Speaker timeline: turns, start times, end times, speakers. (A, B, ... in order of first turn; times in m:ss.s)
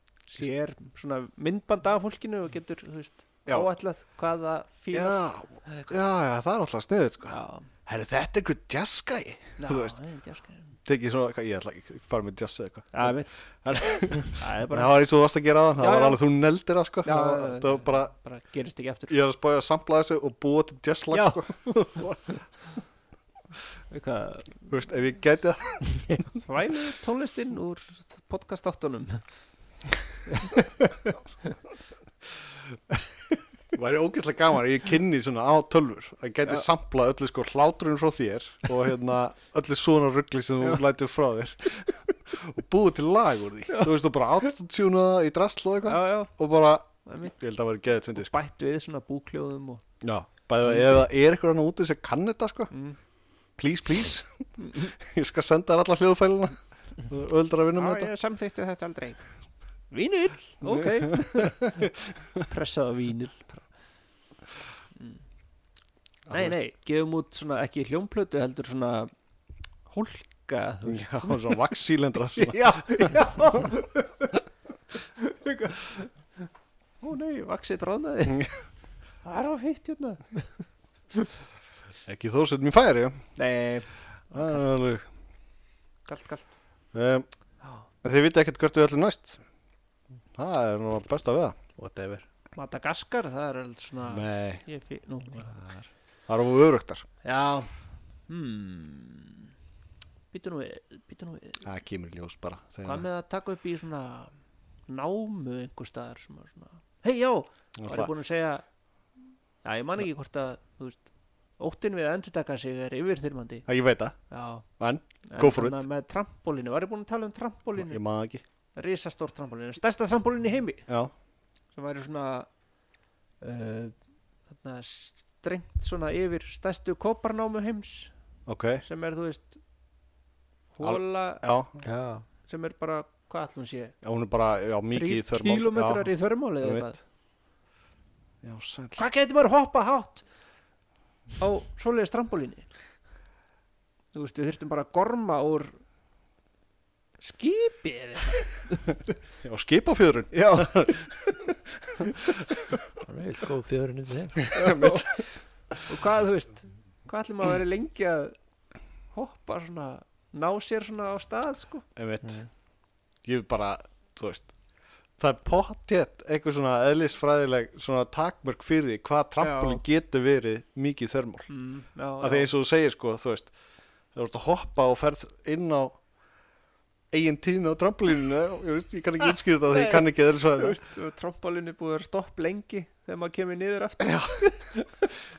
0:00.3-0:05.9 A
0:04.9-0:07.4 B
0:07.3-0:07.7 A
0:07.9-0:10.0 B
0:09.6-0:10.7 A
0:10.8-0:18.1 B
0:12.9-0:15.0 A
0:15.8-0:16.2 A
0:17.0-0:19.2 A
0:19.1-0:22.4 B
0:21.1-0:22.7 A
0:23.9-0:24.7 A
0:24.7-0:26.4 B
0:26.3-0:29.2 A
0:30.3-0:31.5 A
0:33.7-0:48.3 B
0:45.8-0:46.3 A
0:47.1-0:47.4 A
0:48.2-0:49.8 A
0:50.0-0:52.7 B
0:52.7-0:53.0 A
0:53.6-0:58.1 B
0:54.6-0:54.9 A
0:57.8-0:59.2 A
0:59.9-1:01.9 A
1:00.6-1:02.4 B
1:02.4-1:03.7 A
1:06.3-1:06.6 B
1:06.3-1:09.1 A
1:09.9-1:11.6 A
1:10.8-1:13.7 B
1:12.3-1:14.4 A
1:15.0-1:16.5 A
1:17.0-1:18.5 A
1:19.2-1:21.3 A
1:22.1-1:23.2 B
1:23.4-1:24.7 A
1:24.3-1:25.1 B
1:26.1-1:26.6 A
1:26.9-1:27.3 B
1:28.0-1:29.4 B
1:30.4-1:31.6 B
1:31.8-1:32.2 C
1:32.6-1:35.6 A
1:34.1-1:34.6 B
1:35.5-1:37.0 B
1:37.2-1:37.7 A
1:38.3-1:39.5 A
1:40.3-1:41.6 A
1:41.6-1:43.1 B
1:42.8-1:44.3 A
1:44.9-1:48.6 A
1:47.8-1:48.1 B
1:49.6-1:51.1 A
1:51.6-1:53.7 A
1:53.7-1:54.2 B
1:54.3-1:54.7 A
1:54.8-1:55.8 B
1:55.3-1:58.0 A
1:57.8-1:58.4 B
1:58.8-2:00.9 A
2:01.7-2:02.5 A
2:03.4-2:03.9 A
2:04.5-2:08.1 A
2:08.5-2:08.8 B
2:08.8-2:09.6 A
2:10.8-2:11.4 A
2:10.8-2:11.8 B
2:11.8-2:12.3 C
2:12.4-2:14.0 A
2:14.0-2:16.9 B
2:14.9-2:17.0 A
2:18.4-2:19.0 B
2:19.0-2:20.3 A
2:21.4-2:22.7 A
2:24.1-2:25.8 A
2:27.2-2:29.0 A
2:29.4-2:32.7 B
2:30.3-2:32.4 A
2:33.0-2:34.7 C
2:34.4-2:35.2 B
2:34.5-2:35.3 A
2:35.9-2:38.4 A
2:39.1-2:41.9 A
2:42.0-2:42.4 B
2:43.2-2:44.5 B
2:45.2-2:51.5 B
2:49.4-2:49.8 A
2:51.5-2:52.5 A
2:52.2-2:53.5 B
2:54.1-2:56.0 B
2:57.1-3:00.8 B
2:59.7-3:04.9 A
3:04.0-3:04.4 B